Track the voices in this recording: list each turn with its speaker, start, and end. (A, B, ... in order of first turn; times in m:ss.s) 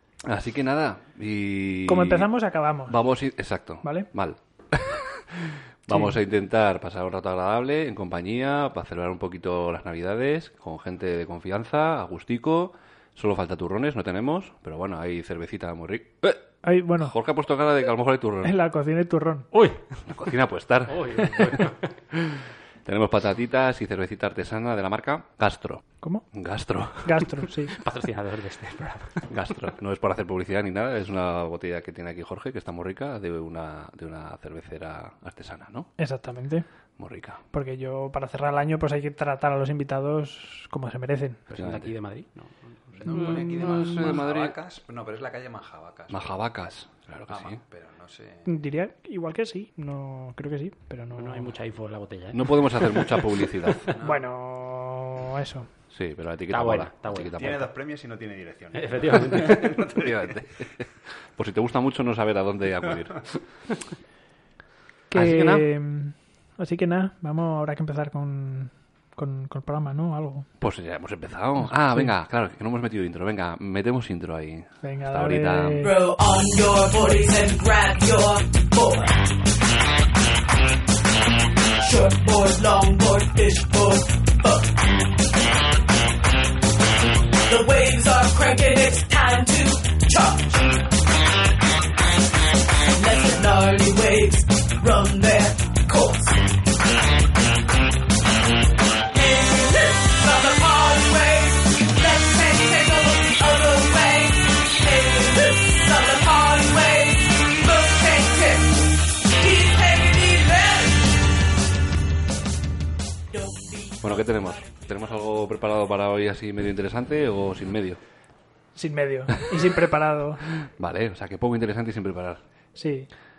0:00.2-0:02.3 A
0:01.9-0:03.0 B
0:02.9-0:16.4 A
0:03.8-0:04.1 B
0:16.6-0:17.1 B
0:17.0-0:18.6 A
0:18.4-0:19.5 B
0:19.5-0:19.8 C
0:20.1-0:27.2 A
0:20.9-0:21.9 C
0:27.0-0:27.8 B
0:27.8-0:29.3 C
0:29.3-0:35.9 A
0:36.0-0:36.7 B
0:37.0-0:37.4 A
0:37.5-0:41.4 B
0:41.5-0:43.6 C
0:41.6-0:41.9 A
0:43.0-0:46.4 D
0:43.1-0:44.6 A
0:46.1-0:47.6 A
0:47.3-0:48.6 D
0:48.4-0:51.5 B
0:51.2-0:53.2 C
0:52.3-0:53.9 A
0:53.9-0:54.2 D
0:54.0-0:55.7 B
0:55.9-0:57.7 A
0:56.5-0:57.4 C
0:57.4-1:00.1 D
0:58.7-1:00.0 C
0:59.9-1:03.3 A
1:05.1-1:10.5 B
1:05.1-1:05.7 A
1:10.6-1:15.9 A
1:14.8-1:15.9 B
1:15.8-1:19.2 E
1:21.8-1:25.1 E
1:27.5-1:30.9 E
1:33.0-1:36.4 E
1:39.1-1:51.1 E
1:53.3-1:54.7 E
1:54.0-1:58.0 A
1:58.8-2:00.4 B
2:00.5-2:02.4 A
2:02.8-2:03.1 B